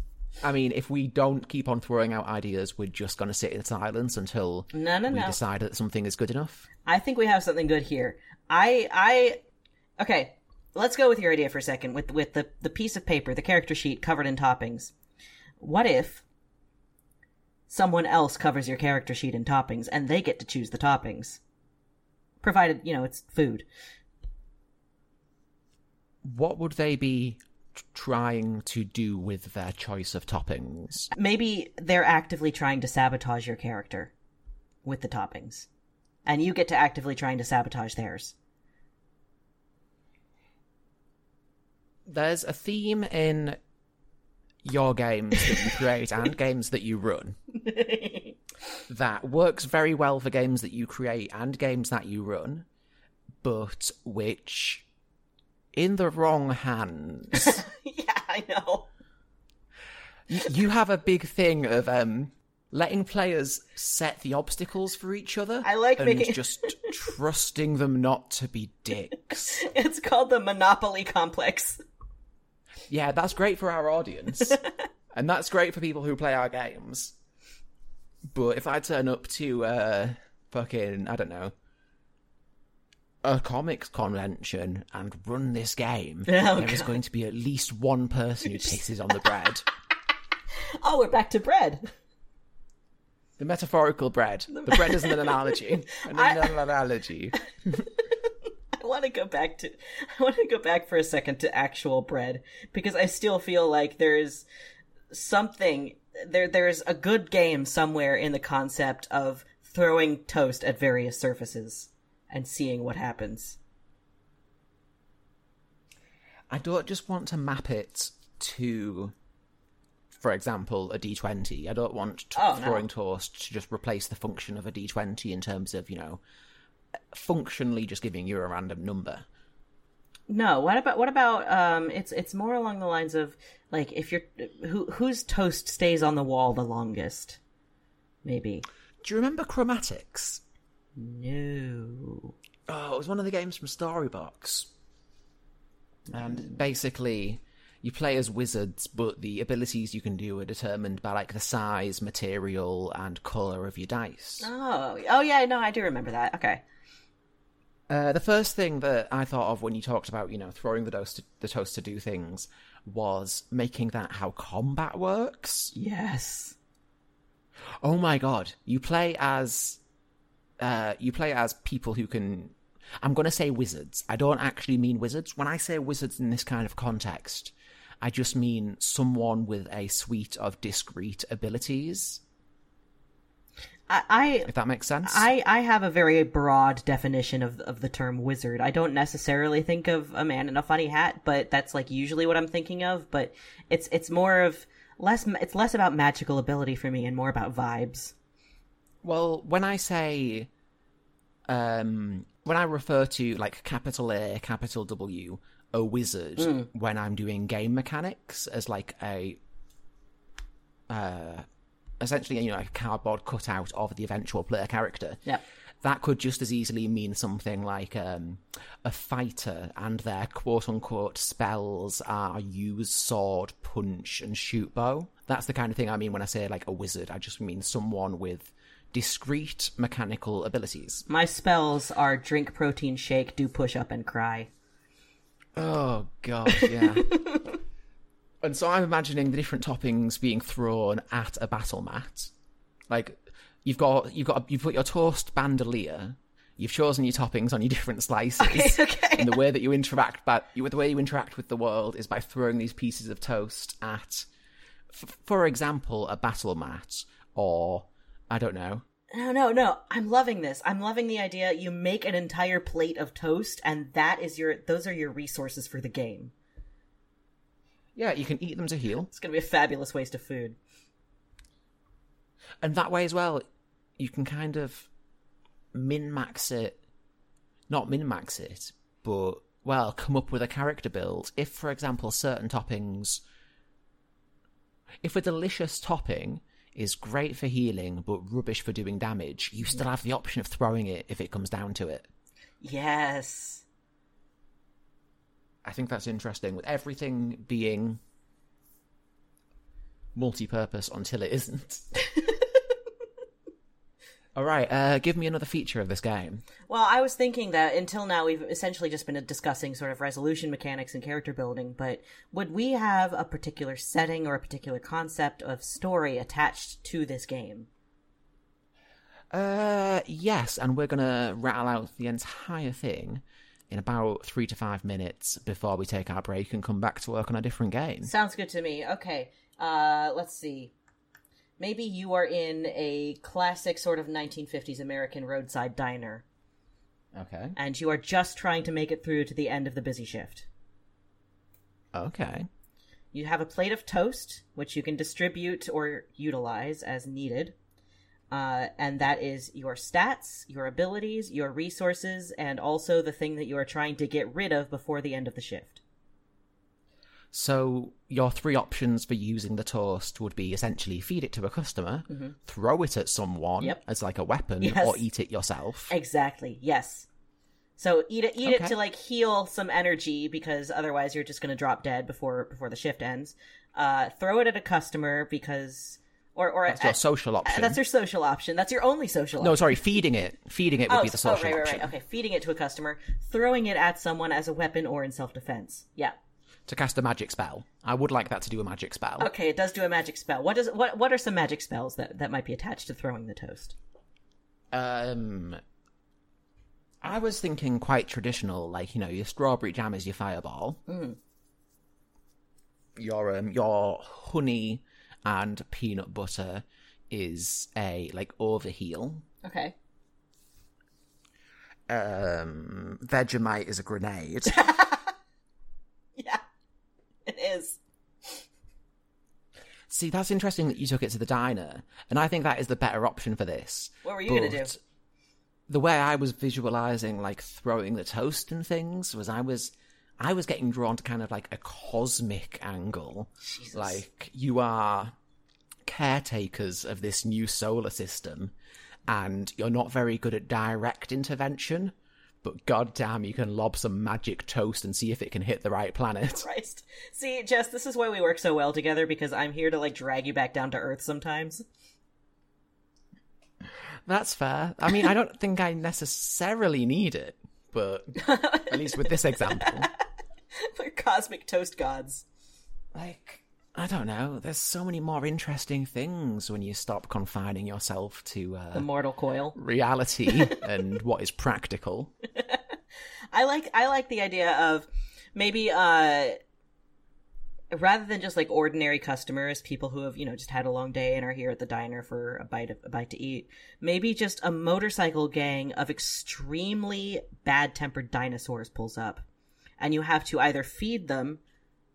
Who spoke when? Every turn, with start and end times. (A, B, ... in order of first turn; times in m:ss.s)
0:00.4-0:06.7 A
0:04.7-0:05.4 B
0:06.8-0:09.4 B
0:10.0-0:14.9 B
0:15.6-0:16.2 B
0:17.7-0:21.4 B
0:22.4-0:23.6 B
0:26.2-0:27.4 A
0:27.9-0:31.1 A
0:31.1-0:34.1 B
0:34.8-0:35.7 B
0:36.2-0:38.3 B
0:42.1-0:43.6 A
0:44.6-0:47.4 A
0:47.6-0:48.4 B
0:48.9-0:52.6 A
0:53.4-0:54.8 A
0:55.7-0:57.6 A
0:57.3-0:58.9 B
1:00.3-1:09.6 A
1:05.6-1:06.9 B
1:09.5-1:11.8 B
1:12.9-1:14.6 A
1:15.1-1:17.2 A
1:18.3-1:21.5 A
1:23.2-1:29.6 A
1:26.3-1:26.9 B
1:28.5-1:28.8 B
1:30.8-1:31.9 B
1:33.4-1:37.8 A
1:34.5-1:36.6 B
1:38.8-1:44.4 B
1:45.1-1:53.6 B
1:56.5-1:59.1 A
2:00.2-2:06.2 A
2:02.3-2:02.9 B
2:07.1-2:09.2 A
2:10.3-2:17.4 B
2:18.2-2:18.6 B
2:19.0-2:20.4 A
2:21.0-2:22.3 B
2:22.7-2:24.7 A
2:26.1-2:34.5 A
2:34.4-2:36.6 B
2:37.9-2:45.7 A
2:45.7-2:46.6 B
2:47.8-2:49.8 A
2:50.6-3:02.2 A
3:03.9-3:04.5 B
3:04.5-3:05.3 A
3:05.0-3:18.1 B
3:19.0-3:20.5 A
3:21.5-3:29.4 A
3:26.4-3:26.7 B
3:30.9-3:31.4 A
3:32.0-3:35.2 A
3:35.8-3:51.0 A
3:51.1-3:54.5 B
3:55.6-3:57.1 A
3:56.5-3:57.5 B
3:58.4-4:02.3 A
4:02.9-4:14.3 A
4:08.4-4:09.4 B
4:14.9-4:18.8 A
4:19.1-4:26.3 B
4:28.0-4:29.1 A
4:29.1-4:30.6 B
4:32.6-4:33.4 A
4:34.0-4:34.9 A
4:35.7-4:36.8 A
4:37.7-4:43.2 A
4:45.0-4:52.1 A
4:52.6-4:53.6 B
4:55.6-4:58.0 A
5:00.1-5:01.9 A
5:02.1-5:02.4 B
5:04.4-5:06.4 A
5:06.7-5:17.7 B
5:19.3-5:28.1 A
5:28.0-5:30.7 B
5:31.6-5:36.2 B
5:37.1-5:37.5 A
5:37.6-5:40.5 B
5:41.9-5:42.5 A
5:43.1-5:47.5 B
5:48.3-5:55.8 B
5:57.3-6:05.9 A
6:02.1-6:02.4 B
6:04.6-6:05.0 B
6:05.9-6:07.1 B
6:07.8-6:19.8 B
6:08.4-6:08.7 A
6:16.7-6:17.8 A
6:19.4-6:21.9 A
6:20.9-6:26.2 B
6:26.7-6:29.3 A
6:29.2-6:33.8 B
6:34.7-6:35.6 A
6:37.0-6:40.8 A
6:40.9-6:41.2 B
6:43.0-6:49.2 A
6:49.4-6:49.7 B
6:51.9-6:54.6 A
6:54.5-6:55.1 B
6:56.2-6:56.4 B
6:57.2-6:58.4 B
6:59.9-7:04.8 A
7:04.0-7:04.7 B
7:05.7-7:15.1 A
7:13.4-7:14.0 B
7:15.8-7:18.5 A
7:19.1-7:26.4 A
7:26.3-7:31.6 B
7:34.0-7:39.9 A
7:38.2-7:39.8 B
7:40.5-7:42.2 B
7:42.9-7:48.9 A
7:48.7-7:49.6 B
7:49.5-7:52.1 A
7:50.3-7:50.6 B
7:53.3-7:56.4 B
7:57.7-8:09.2 B
8:09.8-8:11.4 B